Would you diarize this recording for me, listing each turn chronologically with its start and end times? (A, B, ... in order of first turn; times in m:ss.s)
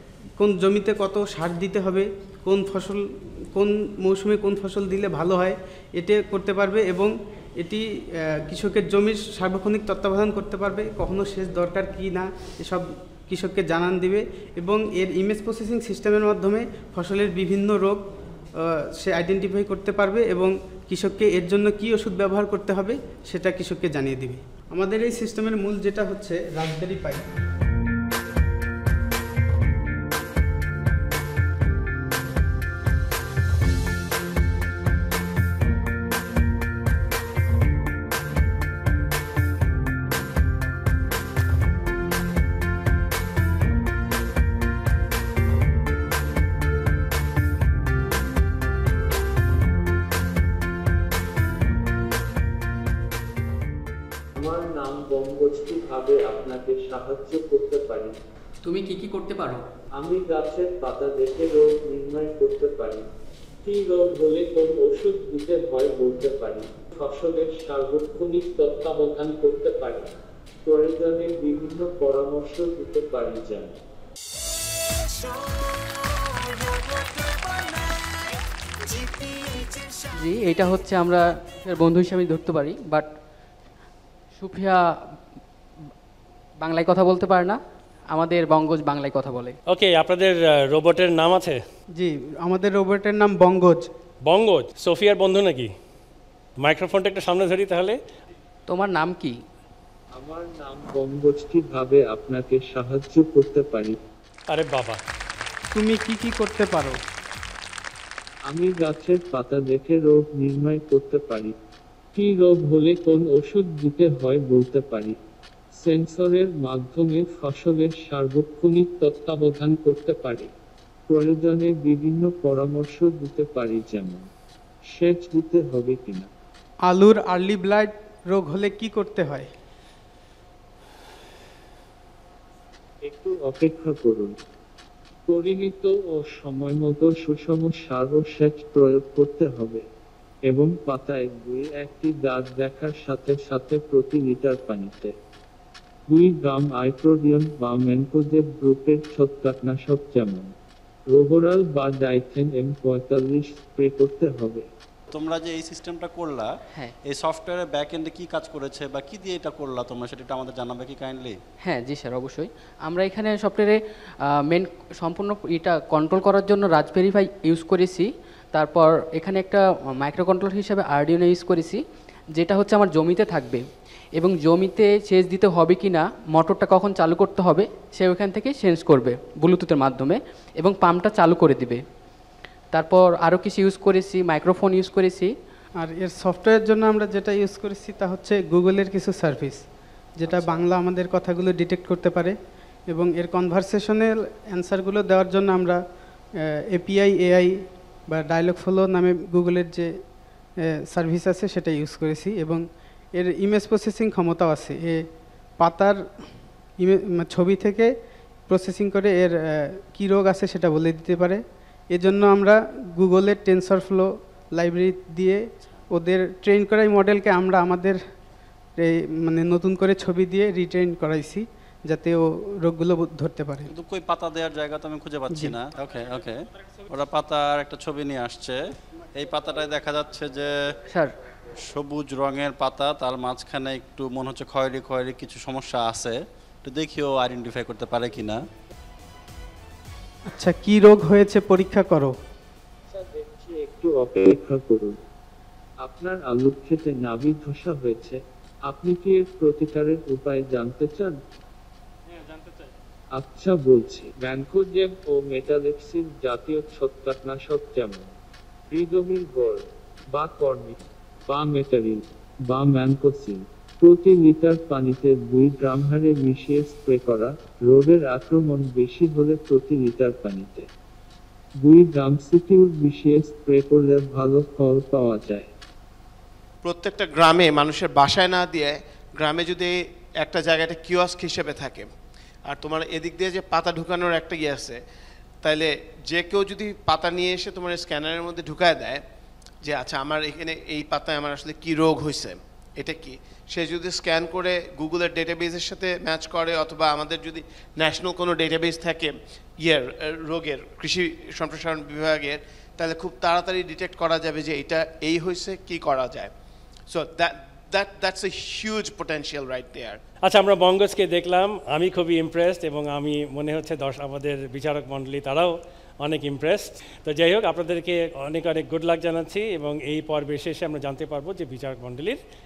0:00.4-0:18.0 A
0:18.6-0:27.2 A
0:54.4-0:58.1 B
0:58.6-0:59.6 C
1:00.0-1:03.0 B
1:03.6-1:13.8 B
1:20.2-1:23.1 C
1:24.4-1:24.8 C
1:26.6-1:27.6 C
1:28.1-1:29.6 C
1:29.7-1:31.6 D
1:32.0-1:33.9 A
1:34.2-1:35.7 D
1:36.6-1:38.0 D
1:38.7-1:39.3 C
1:40.2-1:44.0 B
1:44.5-1:45.0 D
1:45.7-1:47.0 A
1:48.5-1:51.5 B
1:52.1-1:55.2 B
1:55.8-2:00.5 B
2:01.1-2:04.2 B
2:04.9-2:06.3 B
2:06.8-2:09.5 A
2:13.0-2:14.4 B
2:15.3-2:19.8 B
2:20.5-2:25.1 B
2:26.1-2:30.5 B
2:31.1-2:34.6 B
2:35.1-2:36.5 E
2:37.0-2:41.4 E
2:41.6-2:43.8 C
2:44.5-2:51.8 C
2:52.3-2:53.6 C
2:54.2-3:01.8 C
3:02.7-3:05.3 C
3:05.8-3:09.6 A
3:10.2-3:12.4 A
3:10.2-3:10.6 C
3:12.9-3:15.8 A
3:16.4-3:17.5 A
3:18.1-3:19.9 A
3:20.9-3:22.6 A
3:23.1-3:25.0 A
3:25.6-3:26.0 A
3:26.8-3:27.9 A
3:28.5-3:38.0 A
3:38.8-3:43.7 A
3:43.7-3:48.6 E
3:49.1-3:50.7 E
3:51.6-3:58.4 E
4:00.3-4:02.1 A
4:02.9-4:05.0 B
4:05.8-4:11.2 B
4:13.2-4:18.1 B
4:18.7-4:30.7 B
4:31.6-4:35.5 B
4:36.6-4:39.7 F
4:40.2-4:41.8 F
4:42.5-4:44.8 F
4:45.4-4:49.0 F
4:49.6-5:06.3 F
5:06.9-5:10.0 F
5:10.2-5:22.2 D